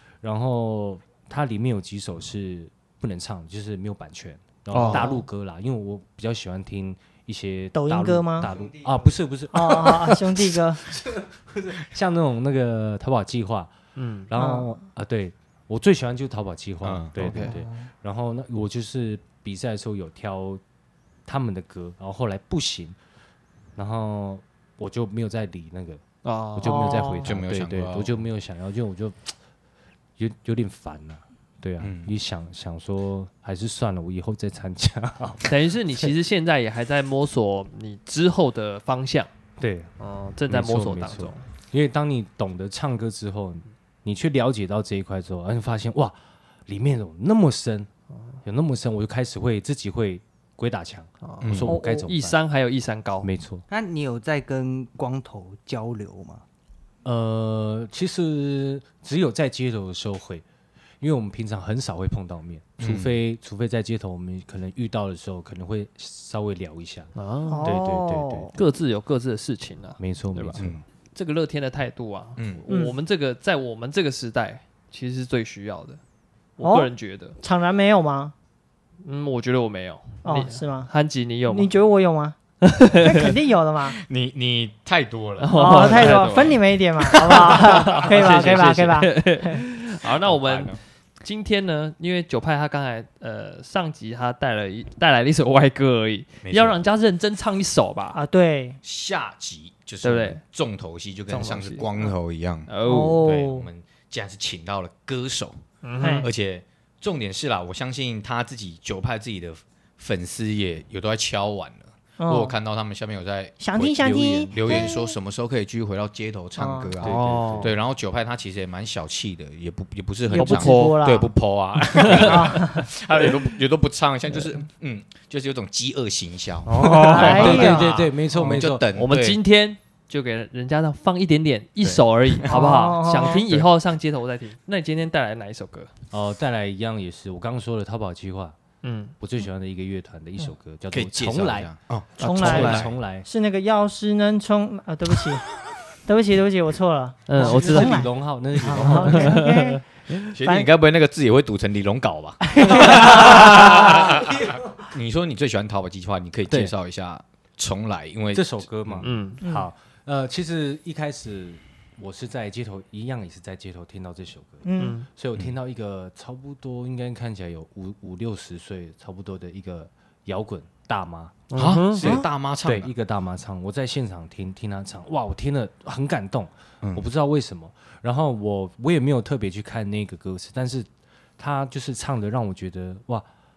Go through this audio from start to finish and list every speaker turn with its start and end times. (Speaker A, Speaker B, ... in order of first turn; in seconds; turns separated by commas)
Speaker A: 0.2-10.6, Speaker B: 4.7-5.1, Speaker C: 7.7-8.5, Speaker C: 9.5-10.9, Speaker A: 11.1-13.7, Speaker B: 14.0-14.3, Speaker A: 14.3-20.6, Speaker C: 14.3-14.8, Speaker D: 16.8-17.6, Speaker C: 17.4-17.9, Speaker A: 21.2-23.0, Speaker A: 23.8-26.0, Speaker B: 26.2-27.0, Speaker A: 26.6-29.4, Speaker C: 26.6-27.4, Speaker D: 27.2-28.2, Speaker A: 30.2-36.1, Speaker D: 31.8-32.1, Speaker B: 35.4-39.3, Speaker A: 39.6-39.9, Speaker B: 40.0-41.5, Speaker A: 40.5-46.2, Speaker A: 46.7-47.9, Speaker A: 48.4-52.4, Speaker B: 51.2-53.3, Speaker D: 51.4-51.8, Speaker A: 53.2-53.6, Speaker E: 53.7-56.4, Speaker A: 57.0-60.4, Speaker A: 61.0-67.1, Speaker D: 62.8-63.2, Speaker B: 67.2-67.8, Speaker C: 67.5-68.6, Speaker A: 67.6-68.5, Speaker B: 68.5-76.0, Speaker A: 70.0-70.8, Speaker D: 70.6-70.8, Speaker D: 72.4-72.6, Speaker C: 72.7-73.0, Speaker B: 76.6-77.4, Speaker C: 76.6-78.3, Speaker B: 79.0-81.7, Speaker C: 80.2-80.9, Speaker C: 81.5-82.4, Speaker B: 82.7-83.3, Speaker C: 83.0-84.0, Speaker D: 83.8-86.6, Speaker B: 85.4-98.2, Speaker C: 85.5-89.6, Speaker D: 90.0-90.8, Speaker D: 96.4-96.8, Speaker C: 98.1-98.8, Speaker D: 98.8-105.6, Speaker B: 100.0-100.4, Speaker B: 101.3-101.9, Speaker B: 102.7-103.2, Speaker C: 102.8-103.7, Speaker B: 105.8-106.3, Speaker C: 106.0-106.3, Speaker D: 106.2-129.4, Speaker C: 112.2-112.6, Speaker C: 113.6-115.1, Speaker C: 116.5-117.0, Speaker B: 117.0-117.7, Speaker A: 117.0-117.8, Speaker C: 120.3-121.3, Speaker B: 120.3-121.0, Speaker B: 122.0-122.5, Speaker C: 122.1-122.9, Speaker B: 126.7-127.7, Speaker A: 126.7-128.8, Speaker C: 127.0-128.0, Speaker B: 128.9-135.9, Speaker D: 131.8-133.7, Speaker C: 132.5-133.5, Speaker A: 136.1-138.6, Speaker B: 138.8-139.1, Speaker A: 139.2-143.3, Speaker D: 140.9-142.9, Speaker B: 142.2-142.9, Speaker C: 142.2-145.5, Speaker C: 146.1-149.8, Speaker B: 147.3-148.0, Speaker A: 147.3-149.5, Speaker B: 148.7-149.6, Speaker D: 150.3-159.1, Speaker C: 150.4-150.7, Speaker C: 152.6-152.8, Speaker A: 153.0-153.3, Speaker A: 158.3-171.4, Speaker B: 159.0-159.4, Speaker C: 159.4-159.7, Speaker C: 164.6-165.0, Speaker B: 164.8-165.1, Speaker B: 171.5-172.0, Speaker D: 171.6-172.9, Speaker C: 172.0-172.3, Speaker A: 172.1-183.3, Speaker D: 176.8-177.1